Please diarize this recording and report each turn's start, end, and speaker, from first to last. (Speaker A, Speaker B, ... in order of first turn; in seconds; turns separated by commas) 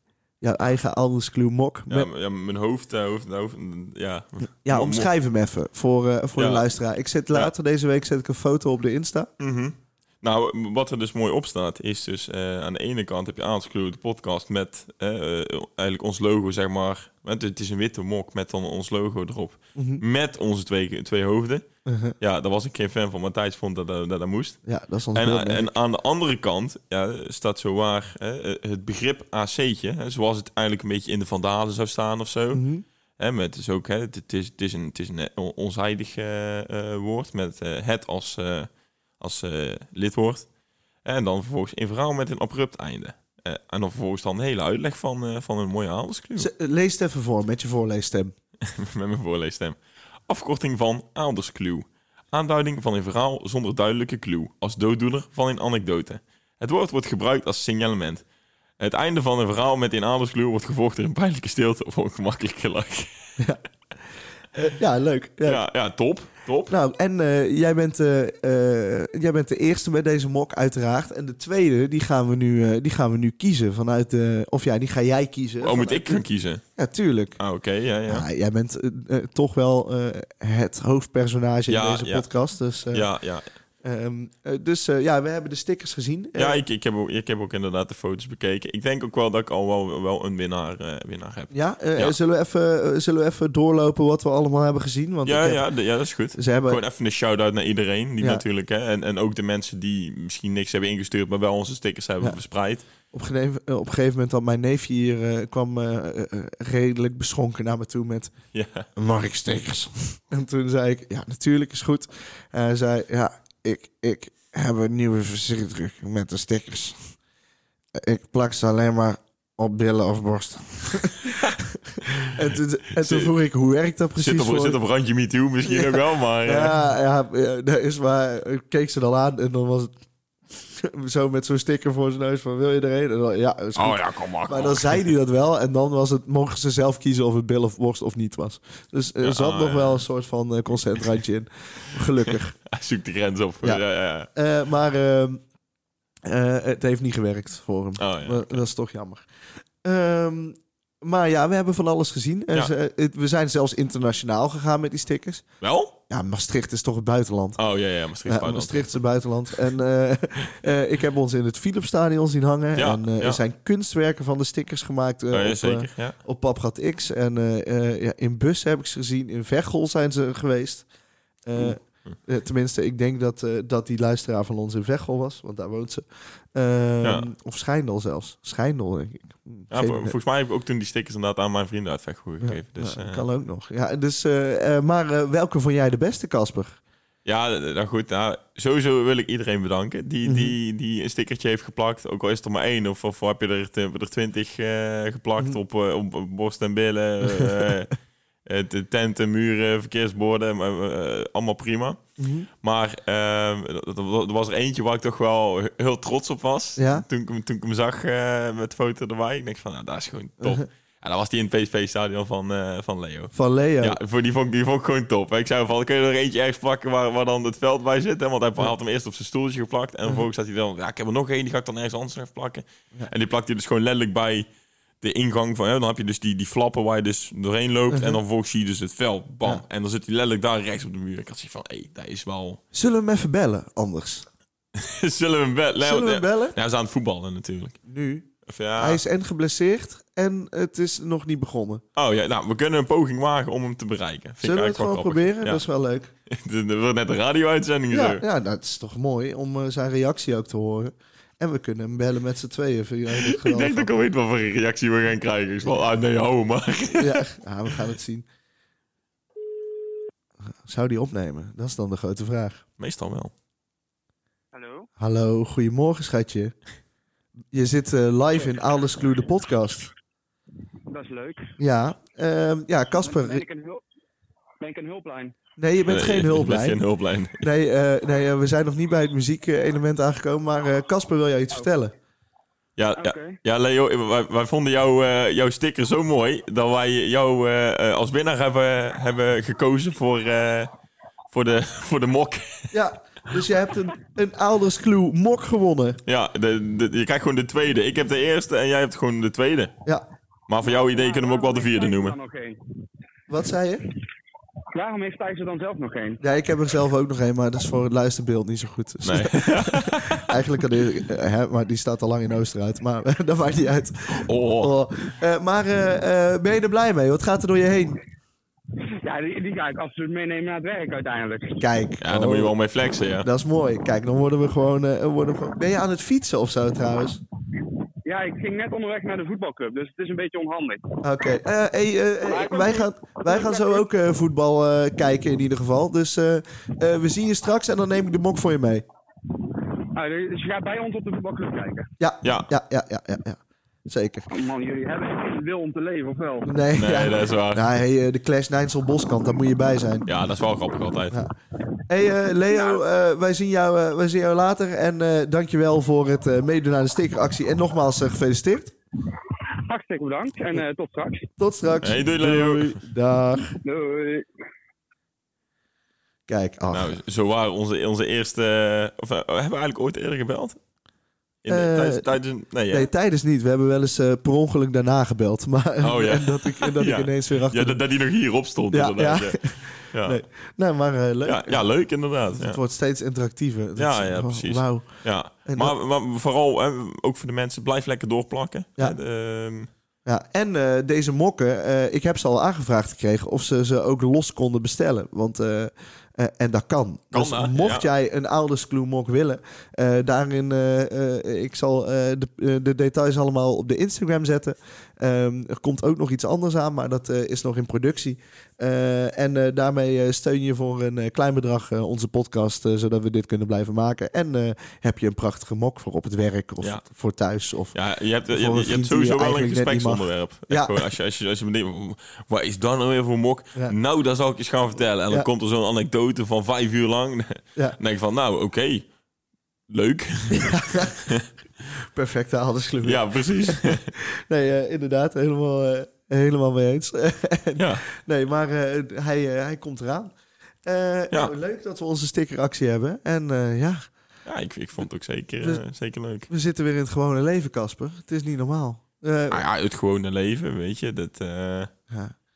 Speaker A: 0.4-2.1, Speaker B: 1.9-5.1, Speaker A: 4.6-9.3, Speaker B: 6.3-6.7, Speaker B: 9.4-21.7, Speaker A: 19.8-20.0, Speaker A: 21.9-22.1, Speaker B: 22.2-24.6, Speaker A: 24.6-25.7, Speaker B: 25.1-32.6, Speaker A: 32.5-32.8, Speaker B: 33.2-40.5, Speaker B: 41.0-46.5, Speaker A: 46.4-48.3, Speaker B: 48.6-58.2, Speaker B: 58.8-63.4, Speaker A: 64.5-65.6, Speaker B: 65.4-66.7, Speaker A: 66.7-76.2, Speaker B: 75.6-76.6, Speaker A: 76.8-77.4, Speaker B: 77.4-78.2, Speaker A: 78.0-83.1, Speaker B: 81.7-82.2, Speaker B: 82.9-83.5, Speaker A: 83.8-86.6, Speaker B: 86.3-92.2, Speaker A: 91.5-95.7, Speaker B: 95.2-102.8, Speaker A: 96.3-96.8, Speaker A: 103.1-108.3, Speaker B: 108.5-108.9, Speaker A: 108.9-117.1, Speaker A: 117.9-124.8, Speaker B: 121.2-121.5, Speaker B: 123.0-123.3, Speaker B: 124.2-126.8, Speaker A: 125.7-130.0, Speaker A: 130.5-142.6, Speaker B: 133.8-135.1, Speaker B: 139.2-140.0, Speaker B: 142.2-144.3, Speaker A: 143.6-145.4, Speaker A: 146.2-155.5, Speaker B: 148.0-148.6, Speaker B: 155.6-155.9, Speaker A: 156.1-157.6, Speaker B: 157.6-159.0, Speaker A: 158.2-170.9, Speaker B: 162.8-163.4, Speaker B: 165.3-166.2, Speaker A: 171.4-180.1, Speaker B: 171.6-172.2, Speaker B: 177.0-177.3, Speaker B: 179.7-183.2, Speaker A: 182.4-186.8, Speaker B: 187.2-202.0, Speaker A: 190.2-190.5, Speaker A: 197.2-197.7, Speaker A: 202.2-202.5, Speaker B: 202.6-224.5, Speaker A: 206.8-207.0, Speaker A: 213.3-214.0, Speaker B: 225.0-232.6, Speaker A: 227.9-228.2, Speaker A: 232.7-234.3, Speaker B: 234.7-237.8, Speaker A: 235.8-236.6, Speaker A: 237.8-241.8, Speaker B: 238.4-239.0, Speaker B: 241.9-245.6, Speaker A: 244.4-246.1, Speaker B: 246.3-248.2, Speaker A: 247.9-253.9, Speaker B: 253.2-257.7, Speaker A: 257.0-258.2, Speaker A: 260.6-262.6, Speaker B: 262.8-263.3, Speaker C: 264.5-264.9, Speaker A: 265.0-266.5, Speaker A: 267.5-269.9, Speaker C: 270.9-271.6, Speaker A: 271.6-273.4, Speaker C: 273.0-273.8, Speaker C: 274.6-275.3, Speaker A: 275.6-276.8, Speaker B: 275.9-277.4, Speaker A: 277.4-281.9, Speaker B: 282.8-290.7, Speaker C: 283.0-283.4, Speaker B: 291.3-292.8, Speaker A: 292.7-296.0, Speaker B: 296.1-299.7, Speaker B: 300.5-302.1, Speaker C: 300.6-302.6, Speaker A: 303.3-303.9, Speaker C: 304.7-306.2, Speaker A: 306.2-318.0, Speaker B: 309.0-310.4, Speaker B: 314.1-314.7, Speaker C: 318.8-321.6, Speaker A: 321.6-322.5, Speaker B: 322.0-323.3, Speaker A: 323.2-327.2, Speaker C: 328.0-330.9, Speaker A: 331.0-338.9, Speaker C: 332.2-333.8, Speaker C: 339.9-341.9, Speaker A: 342.0-344.3, Speaker B: 342.2-342.5, Speaker C: 344.3-346.5, Speaker A: 346.4-350.1, Speaker B: 346.8-347.7, Speaker B: 350.1-351.2, Speaker A: 351.9-358.7, Speaker C: 359.3-361.3, Speaker A: 361.4-363.6, Speaker B: 361.8-362.8, Speaker C: 363.6-364.3, Speaker A: 366.3-367.0, Speaker B: 366.7-370.6, Speaker B: 371.4-372.9, Speaker A: 371.5-372.1, Speaker A: 372.7-377.8, Speaker B: 375.8-380.2, Speaker A: 378.7-385.7, Speaker B: 381.2-382.6, Speaker B: 383.8-389.7, Speaker A: 390.0-420.9, Speaker B: 397.1-397.9, Speaker B: 417.7-428.9, Speaker B: 429.7-431.3, Speaker A: 430.4-431.0, Speaker A: 431.8-443.9, Speaker B: 432.8-433.9, Speaker B: 437.6-437.8, Speaker B: 444.2-446.3, Speaker A: 446.3-449.4, Speaker B: 449.3-451.7, Speaker A: 451.9-452.2